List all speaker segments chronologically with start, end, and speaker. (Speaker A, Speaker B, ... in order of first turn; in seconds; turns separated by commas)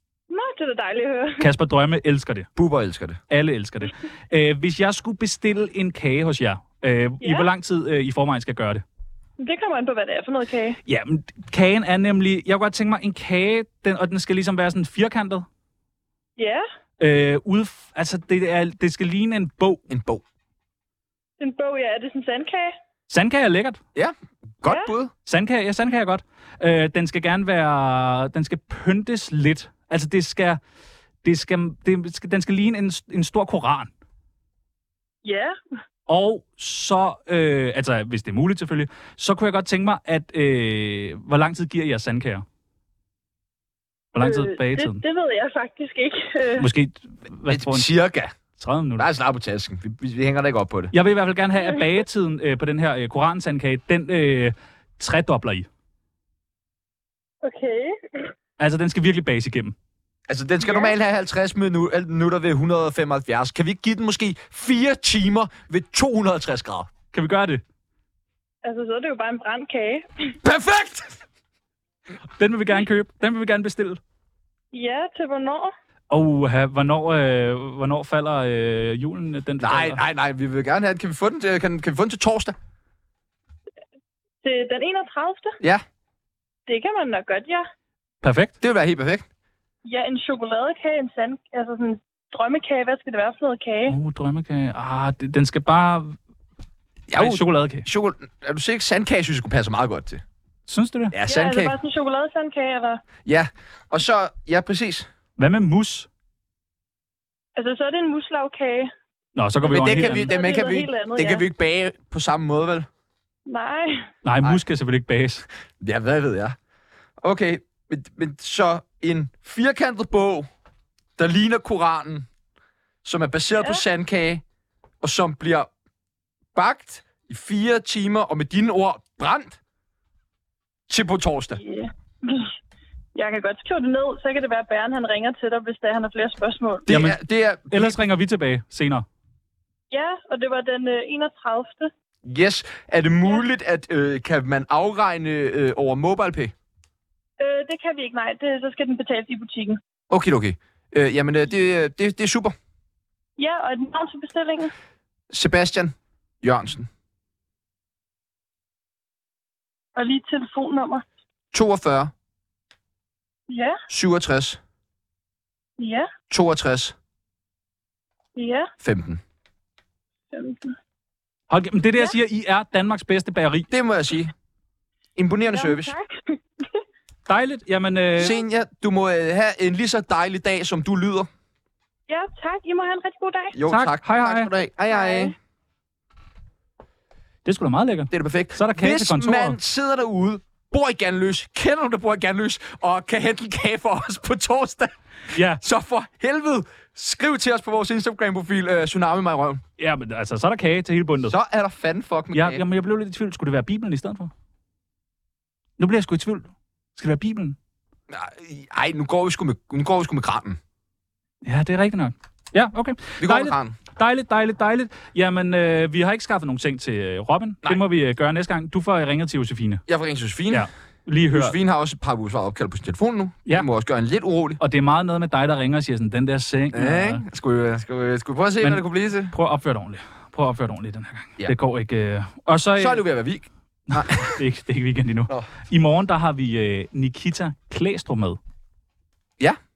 Speaker A: 0.3-1.5, Speaker B: 1.4-2.5, Speaker C: 2.5-3.2, Speaker B: 3.3-8.8, Speaker A: 7.2-7.5, Speaker A: 9.4-10.8, Speaker B: 10.8-15.4, Speaker A: 16.4-16.6, Speaker B: 17.0-19.8, Speaker C: 19.9-20.2, Speaker A: 21.4-22.7, Speaker B: 23.1-23.8, Speaker C: 23.9-25.1, Speaker A: 24.6-24.9, Speaker B: 25.2-30.6, Speaker B: 31.2-33.9, Speaker A: 35.2-35.5, Speaker B: 36.1-42.4, Speaker B: 44.1-45.0, Speaker A: 44.2-46.7, Speaker B: 46.6-47.9, Speaker C: 47.5-48.3, Speaker B: 48.6-49.1, Speaker C: 49.0-50.9, Speaker B: 50.9-55.7, Speaker A: 51.6-52.0, Speaker A: 57.4-58.2, Speaker B: 58.6-59.7, Speaker C: 60.3-66.9, Speaker A: 60.6-60.9, Speaker B: 67.1-67.6, Speaker A: 68.6-70.3, Speaker C: 70.4-71.2, Speaker B: 72.4-74.0, Speaker A: 74.7-75.7, Speaker B: 76.1-80.0, Speaker C: 79.6-82.5, Speaker A: 84.4-85.6, Speaker A: 86.7-87.6, Speaker B: 88.2-88.5, Speaker C: 88.6-89.3, Speaker A: 89.8-94.0, Speaker B: 93.9-96.2, Speaker C: 97.1-100.2, Speaker B: 97.2-97.9, Speaker B: 100.7-101.2, Speaker C: 101.1-101.7, Speaker A: 101.3-103.0, Speaker C: 103.2-105.1, Speaker B: 105.4-106.1, Speaker A: 107.6-108.9, Speaker B: 109.3-110.3, Speaker C: 109.6-112.9, Speaker A: 109.8-111.4, Speaker A: 113.5-114.0, Speaker B: 114.2-115.5, Speaker C: 115.8-116.6, Speaker C: 117.2-120.5, Speaker C: 121.2-122.3, Speaker C: 123.0-124.4, Speaker A: 123.6-123.8, Speaker C: 125.0-125.7, Speaker C: 126.5-129.6, Speaker C: 130.9-131.6, Speaker A: 131.6-132.5, Speaker A: 133.1-136.9, Speaker B: 136.9-137.2, Speaker C: 136.9-138.0, Speaker B: 137.7-139.1, Speaker A: 139.9-141.9, Speaker C: 142.2-146.5, Speaker A: 147.4-149.8, Speaker C: 150.1-152.6, Speaker A: 153.4-154.7, Speaker C: 155.3-156.9, Speaker A: 159.9-161.0, Speaker C: 161.5-162.1, Speaker A: 163.5-163.8, Speaker C: 163.9-164.6, Speaker A: 165.8-166.1, Speaker C: 166.3-166.9, Speaker A: 168.3-168.7, Speaker C: 168.8-169.2, Speaker A: 170.3-170.7, Speaker B: 171.5-173.7, Speaker C: 173.7-174.3, Speaker C: 175.2-175.9, Speaker A: 175.4-176.4, Speaker B: 177.3-178.4, Speaker C: 178.2-181.3, Speaker A: 182.1-183.6, Speaker C: 183.5-185.3, Speaker B: 183.6-184.5, Speaker A: 184.9-185.3, Speaker B: 187.4-189.6, Speaker C: 188.1-194.9, Speaker B: 195.3-195.6, Speaker C: 195.5-199.6, Speaker B: 199.8-201.3, Speaker C: 201.3-202.6, Speaker B: 202.3-204.3, Speaker B: 205.8-207.6, Speaker C: 208.1-210.6, Speaker B: 211.4-219.8, Speaker C: 213.2-213.8, Speaker C: 219.9-220.7, Speaker B: 220.5-221.6, Speaker C: 221.3-224.6, Speaker B: 224.6-227.2, Speaker C: 226.7-229.3, Speaker B: 228.6-233.0, Speaker C: 232.8-234.4, Speaker B: 233.9-238.4